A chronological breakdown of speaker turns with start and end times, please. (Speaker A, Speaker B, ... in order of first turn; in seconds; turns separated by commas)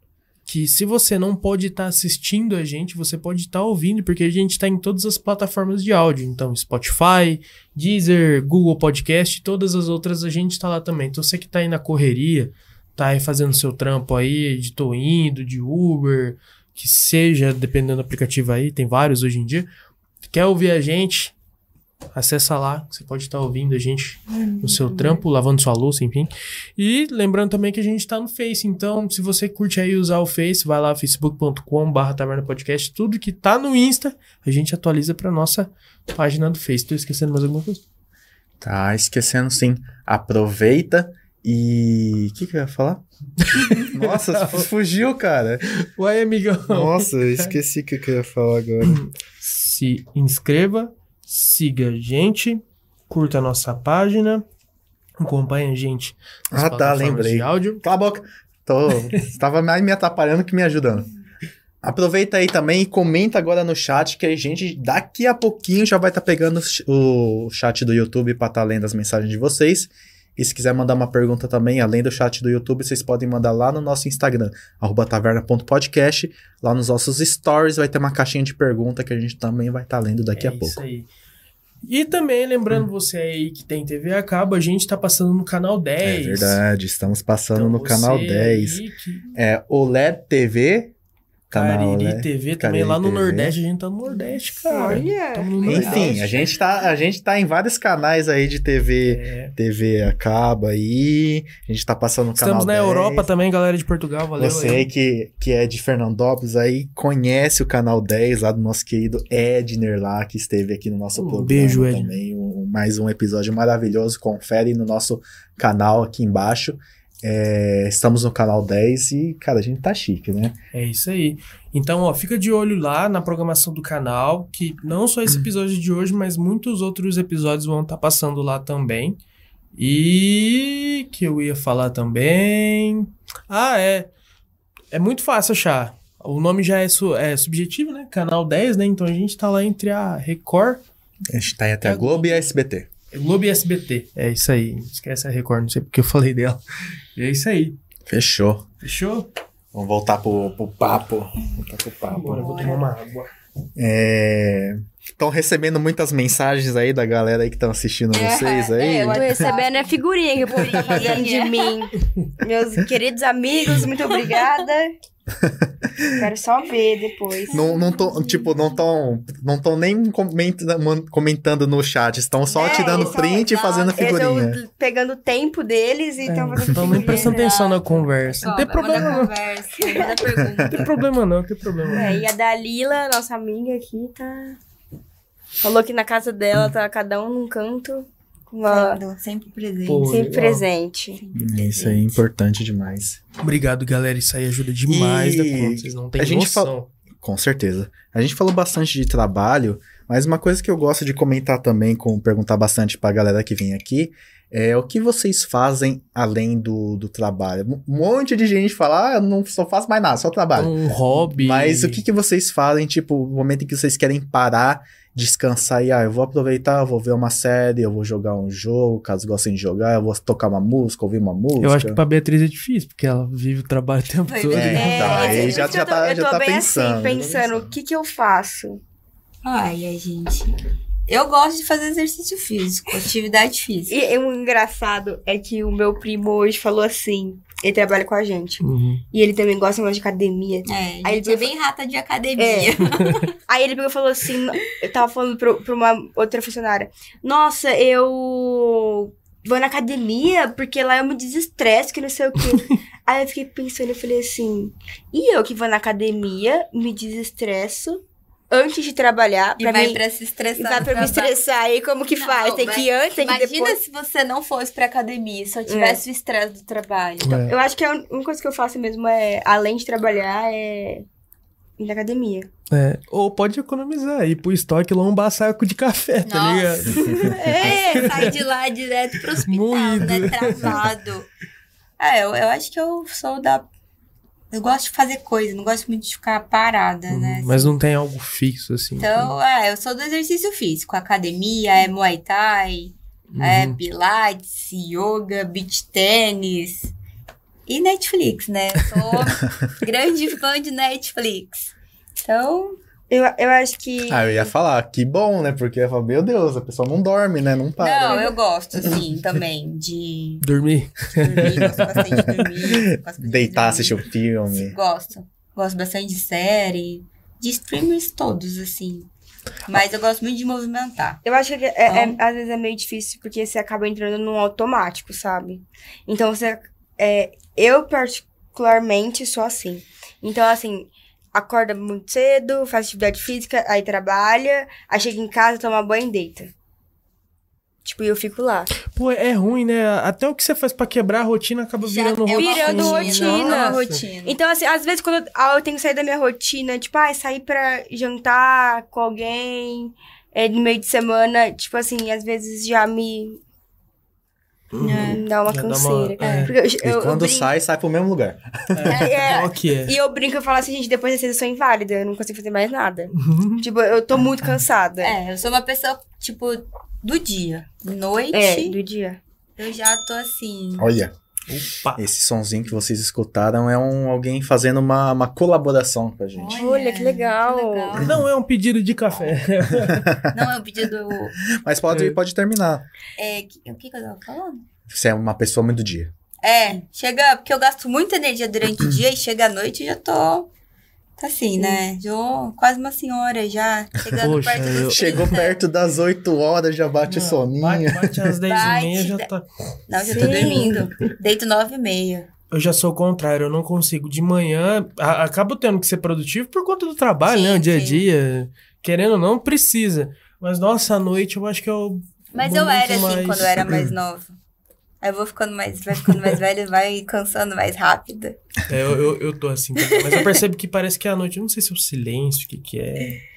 Speaker A: 0.5-19.7, Speaker A: 20.3-21.3, Speaker A: 22.1-37.8, Speaker B: 24.5-24.8, Speaker C: 38.6-45.7, Speaker A: 43.5-44.7, Speaker A: 45.7-47.6, Speaker C: 46.7-49.0, Speaker A: 48.8-54.4, Speaker A: 55.2-57.8, Speaker C: 56.5-61.1, Speaker C: 61.8-80.8, Speaker A: 80.4-81.1, Speaker A: 81.8-86.6, Speaker C: 86.0-88.8, Speaker A: 87.5-89.3, Speaker C: 89.3-90.9, Speaker C: 91.5-93.6, Speaker A: 91.5-96.4, Speaker D: 94.7-96.3, Speaker C: 95.6-103.3, Speaker A: 99.0-99.5, Speaker A: 102.4-104.9, Speaker C: 104.4-120.6, Speaker A: 111.2-112.2, Speaker A: 120.7-129.2, Speaker A: 129.8-134.1, Speaker A: 134.9-140.8, Speaker C: 141.3-142.9, Speaker A: 141.8-142.5, Speaker A: 143.1-146.6, Speaker A: 147.2-147.8, Speaker C: 148.1-148.7, Speaker A: 148.8-149.3, Speaker C: 149.7-152.6, Speaker A: 152.1-153.3, Speaker B: 152.4-152.8, Speaker C: 153.8-159.5, Speaker B: 158.1-160.0, Speaker D: 158.8-164.9, Speaker B: 160.5-161.8, Speaker B: 163.7-164.4, Speaker C: 165.4-166.2, Speaker D: 166.2-167.7, Speaker B: 167.5-168.5, Speaker C: 167.5-174.6, Speaker B: 172.5-174.0, Speaker D: 172.6-177.7, Speaker A: 176.2-179.3, Speaker B: 177.0-180.9, Speaker D: 178.7-179.2, Speaker D: 179.8-180.2, Speaker C: 180.4-180.7, Speaker A: 180.7-182.2, Speaker D: 181.9-184.6, Speaker D: 185.6-189.0, Speaker B: 188.7-190.2, Speaker A: 189.9-190.7, Speaker D: 190.1-191.2, Speaker B: 191.2-192.2, Speaker C: 191.3-193.2, Speaker A: 193.4-196.9, Speaker C: 194.9-222.0, Speaker A: 210.6-212.0, Speaker A: 221.6-225.3, Speaker B: 224.3-225.9, Speaker C: 224.5-227.8, Speaker D: 224.7-228.8, Speaker B: 229.4-230.5, Speaker B: 231.1-234.0, Speaker D: 233.9-241.5, Speaker A: 238.6-239.0, Speaker B: 240.7-243.3, Speaker D: 242.4-242.8, Speaker D: 243.5-260.0, Speaker B: 259.6-261.4, Speaker D: 260.6-263.8, Speaker B: 262.1-267.4, Speaker D: 265.7-266.0, Speaker A: 267.2-267.6, Speaker D: 267.4-271.1, Speaker D: 271.8-272.5, Speaker A: 272.7-278.4, Speaker B: 276.3-281.3, Speaker D: 277.3-278.0, Speaker A: 279.3-280.9, Speaker B: 282.0-283.7, Speaker B: 284.5-287.7, Speaker A: 287.1-289.4, Speaker B: 289.0-296.9, Speaker A: 293.3-293.8, Speaker B: 297.7-302.8, Speaker D: 303.1-304.5, Speaker C: 304.1-308.3, Speaker B: 307.8-310.4, Speaker A: 310.4-312.0, Speaker B: 311.2-319.1, Speaker C: 311.7-314.8, Speaker B: 319.7-321.2, Speaker D: 321.2-336.5, Speaker B: 321.9-322.2, Speaker D: 337.9-338.7, Speaker A: 338.9-344.1, Speaker B: 341.8-344.4, Speaker D: 342.3-353.4, Speaker A: 354.7-356.5, Speaker B: 354.8-355.2, Speaker D: 355.0-357.5, Speaker B: 356.2-356.5, Speaker C: 356.8-358.8, Speaker A: 358.7-360.0, Speaker B: 358.9-359.5, Speaker D: 358.9-365.2, Speaker A: 363.1-363.6, Speaker B: 365.0-368.8, Speaker D: 368.3-369.2, Speaker B: 369.6-370.9, Speaker C: 370.8-371.1, Speaker A: 371.5-372.0, Speaker C: 372.0-376.6, Speaker B: 376.4-378.2, Speaker D: 376.6-377.9, Speaker A: 378.0-380.1, Speaker C: 379.8-380.3, Speaker B: 380.3-381.4, Speaker C: 381.4-382.9, Speaker A: 381.9-382.2, Speaker B: 383.2-384.6, Speaker C: 384.9-386.1, Speaker B: 386.4-390.5, Speaker B: 391.2-395.6, Speaker D: 391.6-391.8, Speaker C: 394.1-398.4, Speaker A: 394.2-395.3, Speaker A: 397.1-399.5, Speaker B: 398.5-399.3, Speaker B: 399.9-402.3, Speaker D: 400.0-400.9, Speaker A: 400.0-400.8, Speaker A: 402.5-413.7, Speaker B: 407.3-408.1, Speaker B: 412.3-414.4, Speaker B: 415.0-418.4, Speaker A: 418.7-423.2, Speaker B: 419.9-420.2